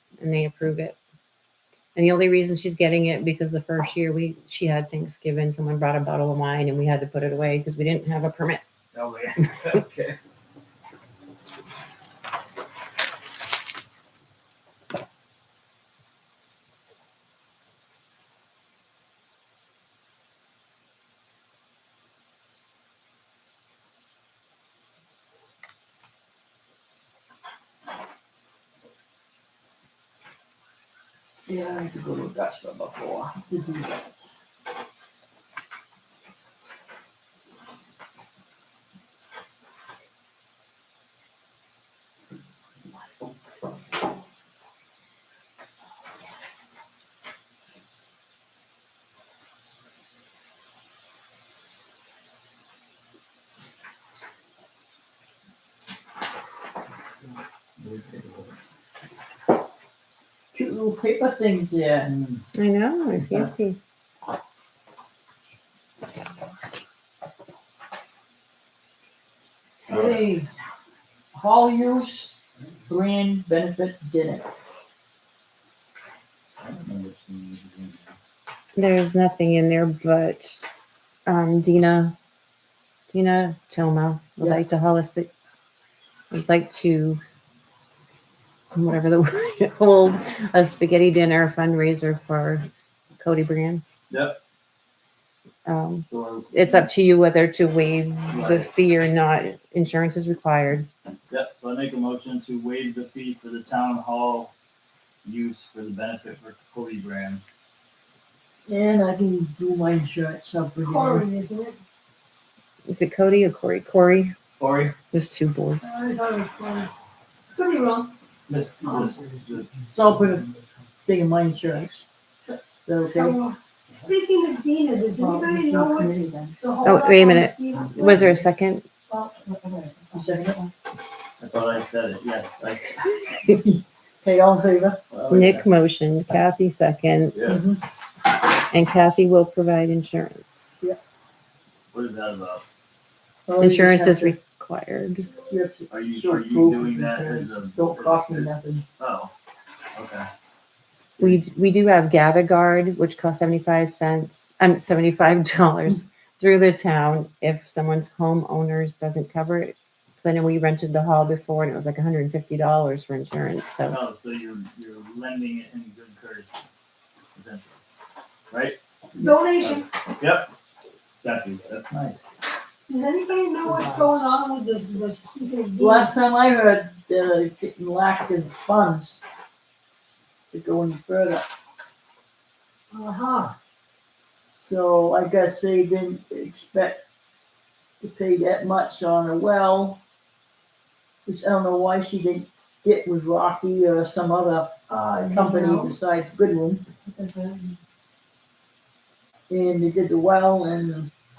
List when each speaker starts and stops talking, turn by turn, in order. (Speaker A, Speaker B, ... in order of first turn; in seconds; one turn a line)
Speaker A: 0.2-1.0
Speaker A: 1.9-8.6
Speaker B: 8.9-10.2
Speaker C: 31.4-34.1
Speaker B: 57.8-58.5
Speaker C: 60.5-62.1
Speaker B: 62.1-62.4
Speaker A: 62.5-63.8
Speaker C: 69.9-70.5
Speaker B: 69.9-70.2
Speaker C: 71.3-72.4
Speaker C: 72.9-74.5
Speaker B: 76.6-78.1
Speaker A: 78.8-80.6
Speaker A: 81.2-82.1
Speaker A: 83.1-85.3
Speaker A: 86.3-87.2
Speaker A: 88.7-92.6
Speaker A: 93.2-93.8
Speaker B: 94.1-94.4
Speaker A: 95.7-100.9
Speaker B: 96.1-96.9
Speaker B: 98.3-98.7
Speaker B: 101.3-104.5
Speaker B: 105.2-107.4
Speaker C: 108.7-111.2
Speaker D: 110.8-111.8
Speaker A: 112.8-114.3
Speaker B: 114.6-114.9
Speaker A: 115.1-116.0
Speaker D: 115.8-116.9
Speaker D: 117.5-118.1
Speaker B: 118.5-119.8
Speaker C: 119.9-120.5
Speaker C: 121.0-122.0
Speaker D: 122.4-128.4
Speaker C: 122.8-123.4
Speaker C: 125.1-126.6
Speaker A: 126.8-128.8
Speaker D: 129.1-130.3
Speaker C: 130.1-130.7
Speaker B: 131.4-133.3
Speaker C: 133.5-135.2
Speaker B: 135.1-135.6
Speaker A: 135.3-137.4
Speaker B: 137.3-137.6
Speaker C: 137.4-137.8
Speaker A: 138.7-140.7
Speaker B: 141.9-142.6
Speaker C: 143.5-144.3
Speaker A: 143.6-145.3
Speaker C: 145.5-148.8
Speaker B: 145.9-149.3
Speaker B: 149.9-150.3
Speaker A: 151.2-164.0
Speaker B: 163.9-166.6
Speaker B: 167.3-167.8
Speaker B: 168.5-168.8
Speaker D: 169.2-169.9
Speaker B: 169.6-170.5
Speaker B: 171.2-172.2
Speaker D: 172.9-176.1
Speaker C: 173.7-174.1
Speaker C: 175.8-179.2
Speaker C: 180.5-181.5
Speaker D: 182.9-183.5
Speaker C: 184.6-187.0
Speaker C: 188.0-190.0
Speaker C: 191.2-194.7
Speaker D: 194.9-195.9
Speaker C: 195.3-196.8
Speaker D: 197.1-197.8
Speaker C: 199.5-201.1